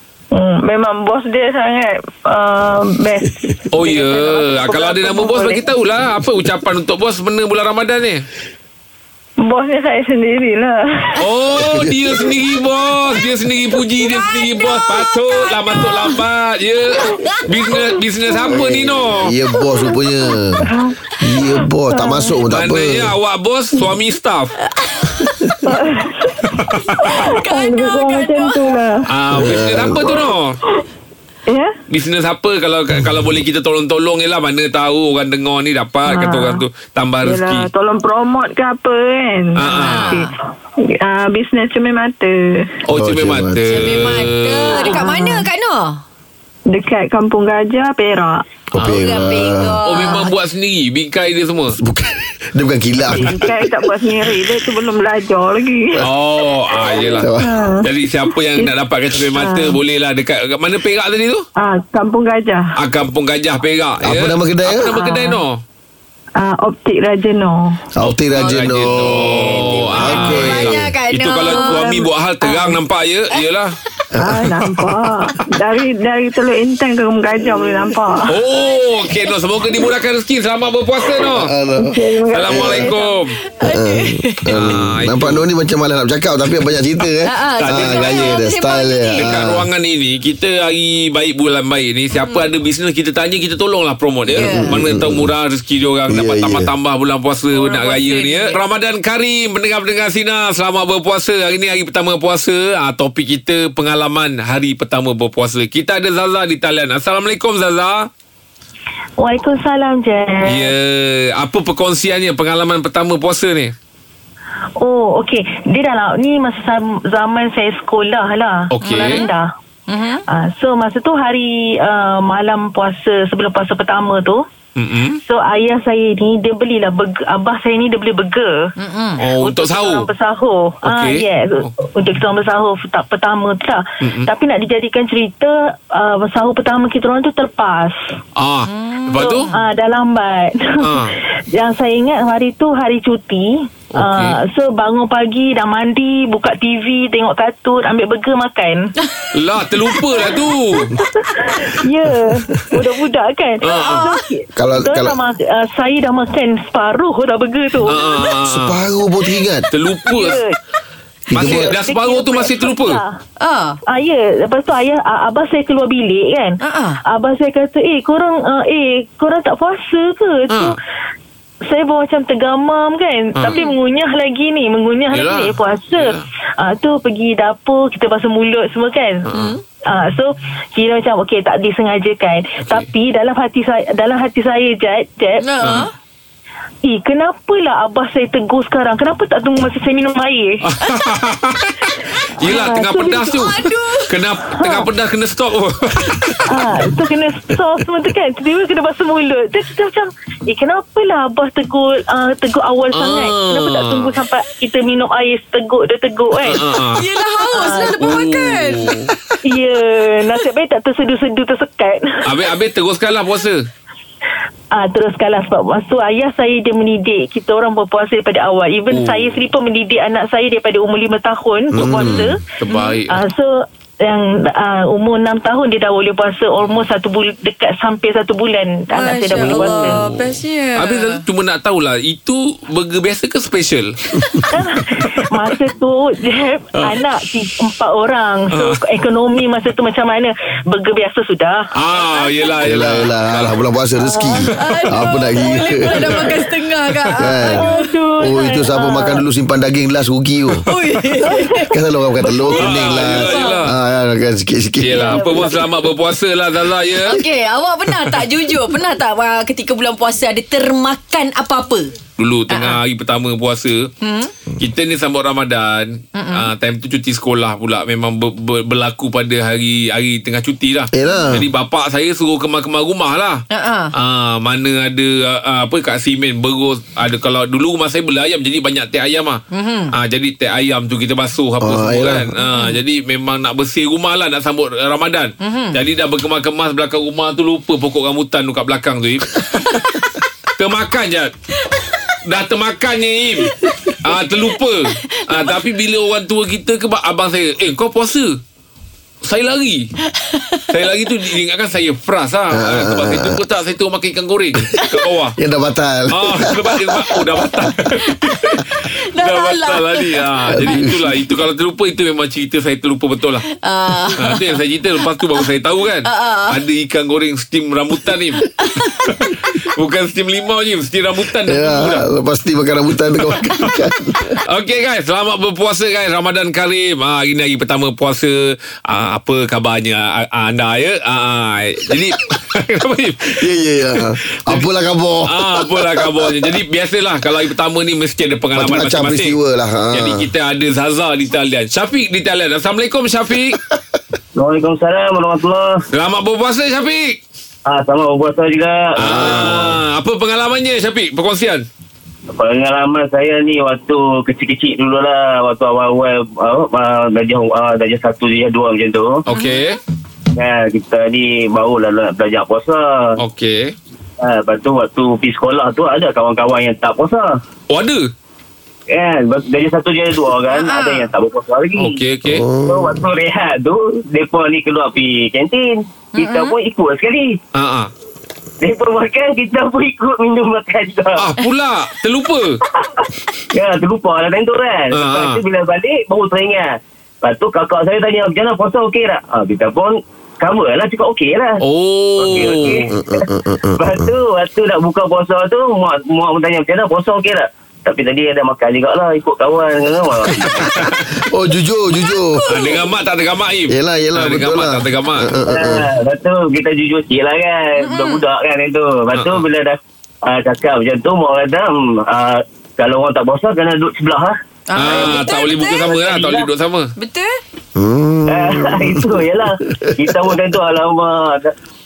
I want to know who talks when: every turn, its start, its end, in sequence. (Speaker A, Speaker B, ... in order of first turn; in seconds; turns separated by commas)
Speaker A: 0.3-5.7, Speaker B: 3.7-8.2, Speaker A: 9.4-11.2, Speaker B: 11.2-19.3, Speaker C: 11.6-12.3, Speaker D: 14.1-15.2, Speaker C: 18.5-20.7, Speaker A: 20.6-22.4, Speaker C: 21.2-23.1, Speaker B: 22.5-24.6, Speaker D: 24.8-25.8, Speaker A: 25.6-26.5, Speaker B: 26.6-26.9, Speaker D: 27.0-28.7, Speaker A: 27.0-29.1, Speaker B: 29.1-30.6, Speaker C: 29.3-30.2, Speaker A: 31.5-31.8, Speaker B: 31.9-37.7, Speaker A: 36.1-36.6, Speaker A: 37.2-42.7, Speaker B: 39.6-40.1, Speaker D: 39.6-40.3, Speaker B: 42.9-44.9, Speaker C: 42.9-44.1, Speaker D: 43.7-46.0, Speaker A: 44.7-45.5, Speaker A: 46.7-48.5, Speaker C: 48.7-49.9, Speaker B: 48.8-49.1, Speaker D: 48.8-50.3, Speaker B: 49.9-51.8, Speaker C: 51.7-53.6, Speaker A: 53.1-56.1, Speaker B: 56.0-61.5, Speaker A: 56.9-57.9, Speaker C: 57.2-57.5, Speaker A: 58.5-59.8, Speaker A: 61.6-62.7, Speaker B: 62.8-65.6, Speaker C: 64.0-64.9, Speaker A: 64.8-65.4, Speaker A: 66.4-67.8, Speaker C: 68.0-70.8, Speaker B: 68.0-73.8, Speaker D: 69.2-72.8, Speaker C: 74.1-74.5, Speaker A: 74.2-78.4, Speaker B: 74.6-74.9, Speaker B: 78.3-81.5, Speaker C: 81.2-82.9, Speaker A: 81.8-83.1, Speaker B: 82.3-83.4, Speaker D: 83.5-84.5, Speaker C: 83.6-89.7, Speaker B: 84.5-85.4, Speaker D: 87.2-89.4, Speaker B: 87.6-88.4, Speaker B: 89.2-108.1, Speaker D: 94.3-94.8, Speaker C: 94.3-95.3, Speaker C: 96.1-96.7, Speaker D: 97.5-98.6, Speaker E: 109.2-110.7, Speaker B: 110.4-113.7, Speaker E: 114.8-119.5, Speaker B: 118.7-119.3, Speaker D: 118.8-119.3, Speaker D: 119.9-120.2, Speaker E: 120.3-124.5, Speaker B: 124.8-125.2, Speaker E: 125.2-128.7, Speaker D: 128.8-129.2, Speaker B: 129.2-130.1, Speaker E: 129.4-138.0, Speaker B: 130.8-131.7, Speaker B: 134.0-134.3, Speaker B: 138.4-139.5, Speaker D: 138.7-139.5, Speaker E: 139.2-148.9, Speaker B: 140.8-141.1, Speaker B: 143.9-144.4, Speaker D: 149.0-149.3, Speaker B: 149.3-150.9, Speaker E: 150.1-158.3, Speaker B: 153.6-154.1, Speaker C: 154.6-155.2, Speaker B: 157.8-158.8, Speaker C: 158.4-159.7, Speaker B: 159.7-160.4, Speaker E: 160.0-160.6, Speaker C: 161.3-161.7, Speaker B: 161.3-163.0, Speaker E: 161.3-163.2, Speaker D: 163.4-163.8, Speaker E: 163.9-170.8, Speaker D: 166.6-167.0, Speaker B: 170.5-170.8, Speaker E: 171.7-179.3, Speaker B: 173.3-173.7, Speaker B: 175.1-176.2, Speaker B: 179.3-179.6, Speaker D: 179.3-179.6, Speaker E: 179.9-185.8, Speaker B: 182.6-182.9, Speaker D: 185.4-185.9, Speaker B: 185.6-185.9, Speaker E: 186.9-190.7, Speaker B: 190.6-196.8, Speaker E: 192.4-193.4, Speaker D: 193.3-194.1, Speaker E: 194.5-194.9, Speaker E: 196.5-206.7, Speaker B: 202.9-204.2, Speaker B: 206.4-207.1, Speaker D: 206.9-209.0, Speaker E: 207.5-208.2, Speaker B: 208.0-209.1, Speaker E: 209.4-212.4, Speaker B: 212.2-213.7, Speaker E: 214.7-222.4, Speaker B: 218.9-219.4, Speaker C: 221.7-222.3, Speaker B: 221.8-223.2, Speaker E: 223.1-230.0, Speaker D: 228.9-231.2, Speaker B: 229.3-234.0, Speaker E: 234.5-241.7, Speaker B: 234.9-235.5, Speaker B: 236.8-237.1, Speaker B: 238.5-238.8, Speaker B: 241.8-243.6, Speaker E: 242.2-242.6, Speaker C: 242.6-246.2, Speaker E: 244.1-244.4, Speaker D: 244.6-248.0, Speaker B: 246.1-246.3, Speaker C: 247.2-247.7, Speaker E: 247.4-249.1, Speaker C: 248.2-250.7, Speaker D: 250.7-251.6, Speaker E: 251.2-252.6, Speaker C: 251.6-255.3, Speaker D: 252.5-253.6, Speaker B: 252.5-253.8, Speaker B: 254.8-257.2, Speaker E: 255.0-255.7, Speaker D: 255.0-255.4, Speaker D: 257.0-261.9, Speaker B: 262.2-263.9, Speaker D: 262.5-262.8, Speaker D: 264.0-264.3, Speaker B: 264.6-273.4, Speaker D: 266.1-266.5, Speaker C: 270.9-271.5, Speaker D: 273.5-273.9, Speaker B: 273.9-279.4, Speaker D: 279.5-279.9, Speaker B: 279.9-291.3, Speaker C: 281.6-282.3, Speaker D: 282.4-282.8, Speaker D: 285.4-285.8, Speaker B: 292.2-298.4, Speaker D: 293.5-294.0, Speaker D: 295.1-295.5, Speaker B: 299.2-299.9, Speaker D: 300.1-300.7, Speaker B: 300.7-305.4, Speaker C: 302.5-303.4, Speaker C: 305.4-307.7, Speaker B: 306.1-313.5, Speaker D: 308.7-310.8, Speaker C: 310.5-311.0, Speaker D: 313.6-314.4, Speaker B: 314.2-322.1, Speaker D: 316.1-316.6, Speaker D: 318.6-319.1, Speaker C: 321.4-324.4, Speaker B: 323.3-323.8, Speaker B: 324.5-334.7, Speaker C: 333.4-336.6, Speaker B: 335.3-339.4, Speaker C: 338.6-340.3, Speaker B: 339.9-343.6, Speaker C: 343.5-343.8, Speaker F: 344.4-345.8, Speaker B: 345.9-347.2, Speaker F: 347.7-349.7, Speaker B: 349.0-351.7, Speaker C: 349.0-349.7, Speaker F: 352.3-359.2, Speaker B: 359.3-359.8, Speaker D: 359.3-359.6, Speaker F: 360.4-363.2, Speaker B: 363.2-363.8, Speaker F: 364.2-367.4, Speaker B: 367.7-368.1, Speaker F: 368.9-372.0, Speaker D: 370.5-371.1, Speaker B: 371.8-372.5, Speaker C: 372.3-373.0, Speaker F: 372.6-377.4, Speaker D: 376.2-376.6, Speaker B: 377.5-377.9, Speaker F: 378.6-381.3, Speaker B: 381.2-382.6, Speaker F: 382.8-391.6, Speaker B: 384.9-385.4, Speaker B: 391.6-392.9, Speaker F: 392.2-400.8, Speaker C: 392.9-394.1, Speaker C: 400.5-402.5, Speaker B: 400.6-401.0, Speaker D: 402.2-402.8, Speaker B: 402.5-405.3, Speaker C: 403.7-405.9, Speaker F: 405.5-415.2, Speaker D: 407.8-408.2, Speaker B: 409.1-409.4, Speaker D: 414.7-415.9, Speaker B: 414.8-416.9, Speaker F: 415.9-416.5, Speaker D: 417.0-417.4, Speaker C: 417.8-420.3, Speaker F: 418.3-421.5